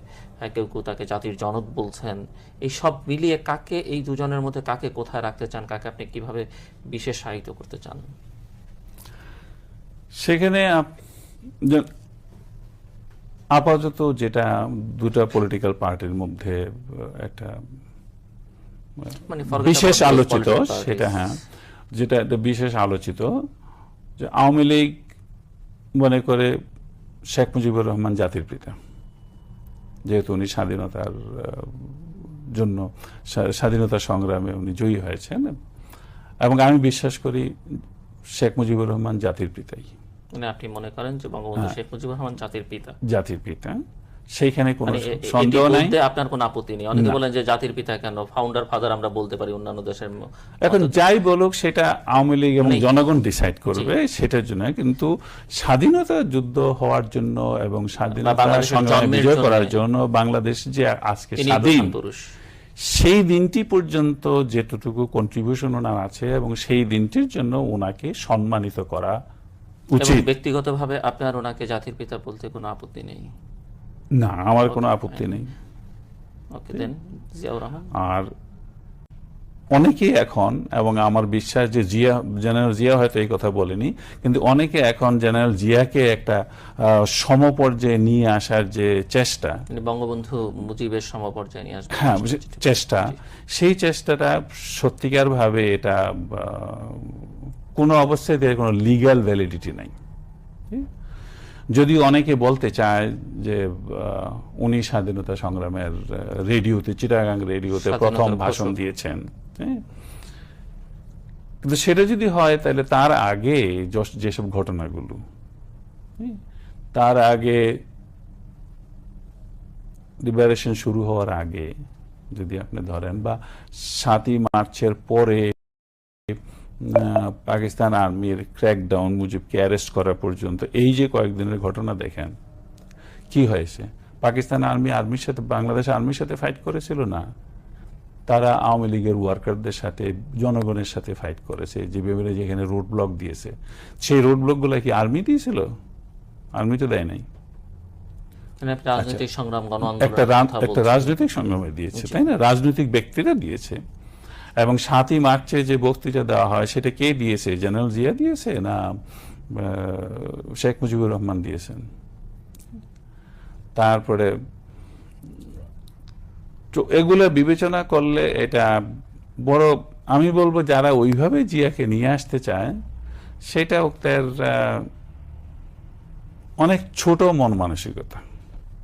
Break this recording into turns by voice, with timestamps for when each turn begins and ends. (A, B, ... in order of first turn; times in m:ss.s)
0:00.4-0:08.1 A
0:10.2-0:11.0 B
0:13.5-0:17.5 B
0:19.0-0:21.4 B
0:19.3-0:21.4 A
0:22.0-0:23.3 B
0:24.2-0:25.0 B
0:26.0-0:26.5 B
0:27.3-0:28.7 B
0:30.1-0:35.6 B
0:36.4-0:37.5 B
0:38.4-0:39.9 B
0:40.3-0:42.9 A
0:43.1-0:43.8 B
0:44.4-0:46.0 B
0:44.9-0:51.0 A
0:50.6-1:01.9 B
0:52.6-0:52.9 A
0:58.1-0:59.7 A
1:01.4-1:02.2 A
1:02.9-1:09.2 B
1:09.9-1:10.3 B
1:10.0-1:13.3 A
1:14.2-1:15.5 B
1:14.7-1:15.3 A
1:16.5-1:17.9 A
1:18.0-1:18.3 B
1:19.7-1:29.6 B
1:29.7-1:33.2 A
1:32.0-1:39.9 B
1:41.7-1:49.8 B
1:47.7-1:48.8 A
1:51.6-1:55.2 B
1:56.9-1:57.7 B
2:00.2-2:01.7 B
2:02.3-2:05.5 B
2:06.3-2:12.3 B
2:13.3-2:17.2 B
2:18.3-2:25.6 B
2:26.6-2:27.2 B
2:28.6-2:31.2 A
2:29.0-2:29.2 B
2:29.8-2:33.8 B
2:31.9-2:32.2 A
2:34.6-2:38.8 B
2:39.5-2:41.8 B
2:43.8-2:44.3 B
2:46.7-2:48.6 B
2:49.4-2:52.7 B
2:53.5-2:54.9 B
2:56.6-2:58.2 B